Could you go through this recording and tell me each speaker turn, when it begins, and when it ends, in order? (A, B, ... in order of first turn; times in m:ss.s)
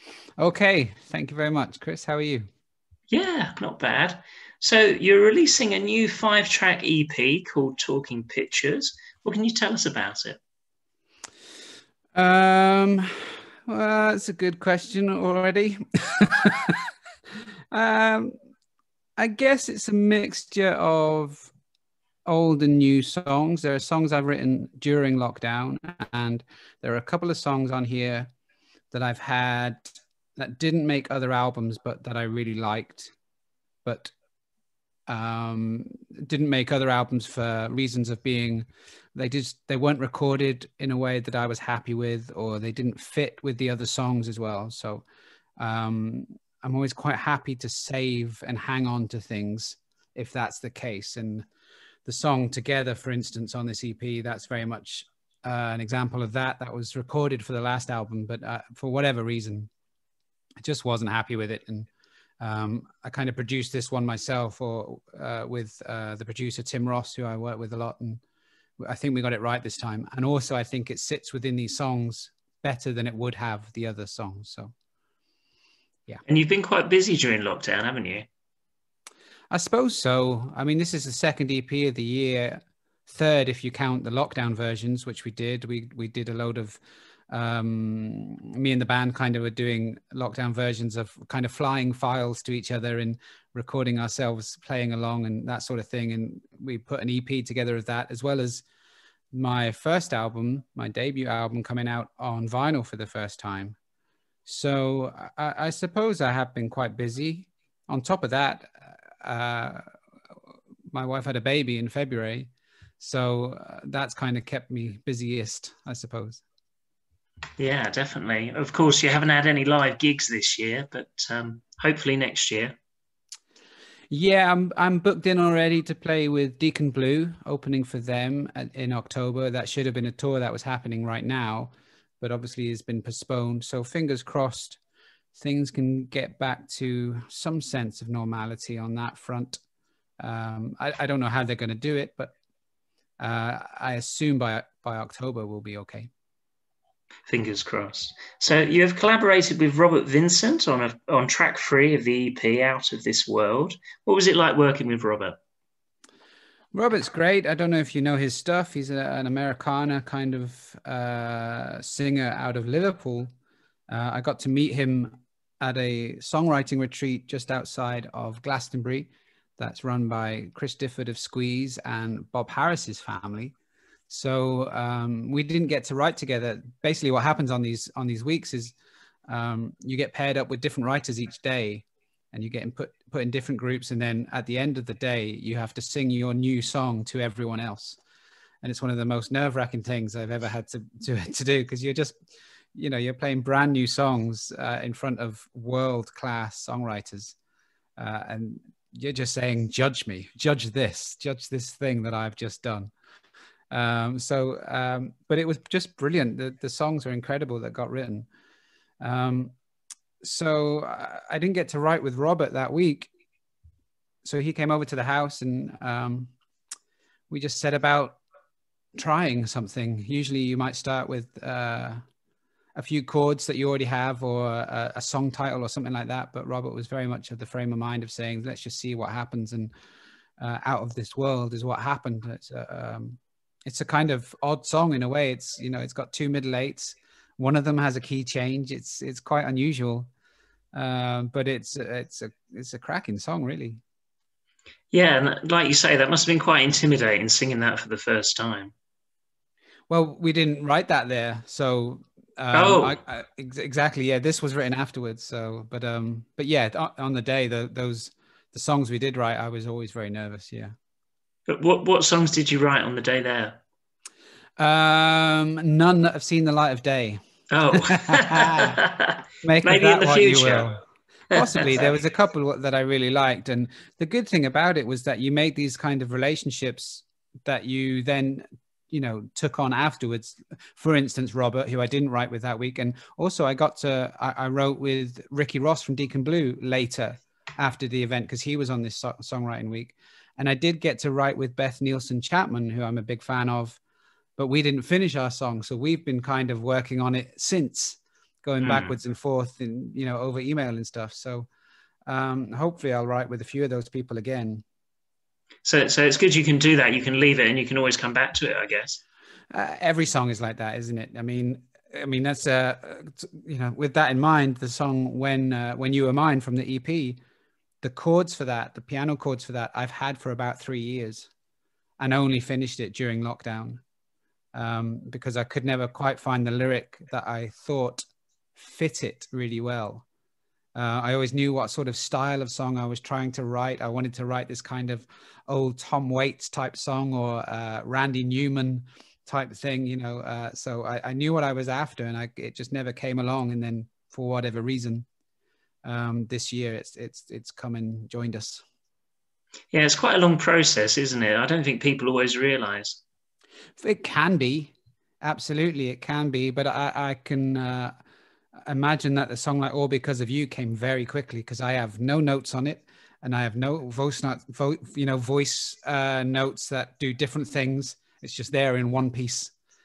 0:00.4-0:02.5 A
0:03.1-0:10.4 B
0:12.2-0:16.9 A
0:17.7-0:18.3 A
0:19.2-0:21.5 A
0:22.3-0:28.3 A
0:28.9-0:33.1 A
0:33.8-0:34.1 A
0:35.1-0:45.0 A
0:45.6-0:51.5 A
0:52.1-0:59.7 A
1:00.6-1:01.9 A
1:02.4-1:08.2 A
1:08.8-1:14.7 A
1:16.3-1:18.3 B
1:19.5-1:38.6 A
1:39.3-1:43.8 A
1:44.5-1:49.9 A
1:50.9-1:56.4 A
1:57.6-2:02.8 B
2:04.1-2:14.8 A
2:15.4-2:19.6 A
2:20.2-2:22.4 A
2:23.2-2:26.1 A
2:27.3-2:35.4 B
2:36.7-2:43.3 A
2:43.9-2:53.6 A
2:54.1-2:58.8 A
2:59.3-3:08.0 A
3:08.6-3:12.2 A
3:12.8-3:17.4 A
3:18.0-3:22.9 A
3:23.7-3:28.3 A
3:29.0-3:29.5 A
3:30.2-3:33.1 A
3:34.2-3:36.3 A
3:37.3-3:38.2 A
3:39.0-3:42.0 A
3:42.8-3:49.7 A
3:50.4-4:00.1 A
4:00.7-4:03.8 A
4:04.9-4:08.7 B
4:09.9-4:20.7 A
4:12.5-4:13.0 B
4:21.5-4:23.6 B
4:24.6-4:27.2 A
4:27.5-4:30.7 B
4:27.8-4:28.8 A
4:29.4-4:30.8 A
4:31.3-4:53.8 A
4:31.3-4:31.9 B
4:54.4-5:01.5 A
4:58.6-4:58.9 B
5:02.1-5:04.6 A
5:05.6-5:09.0 B
5:09.5-5:17.2 A
5:17.8-5:21.3 A
5:22.0-5:23.8 A
5:24.5-5:28.0 A
5:28.6-5:30.0 A
5:30.8-5:45.1 A
5:45.8-5:48.6 A
5:49.7-5:53.0 B
5:53.8-5:57.9 A
5:58.6-6:09.5 A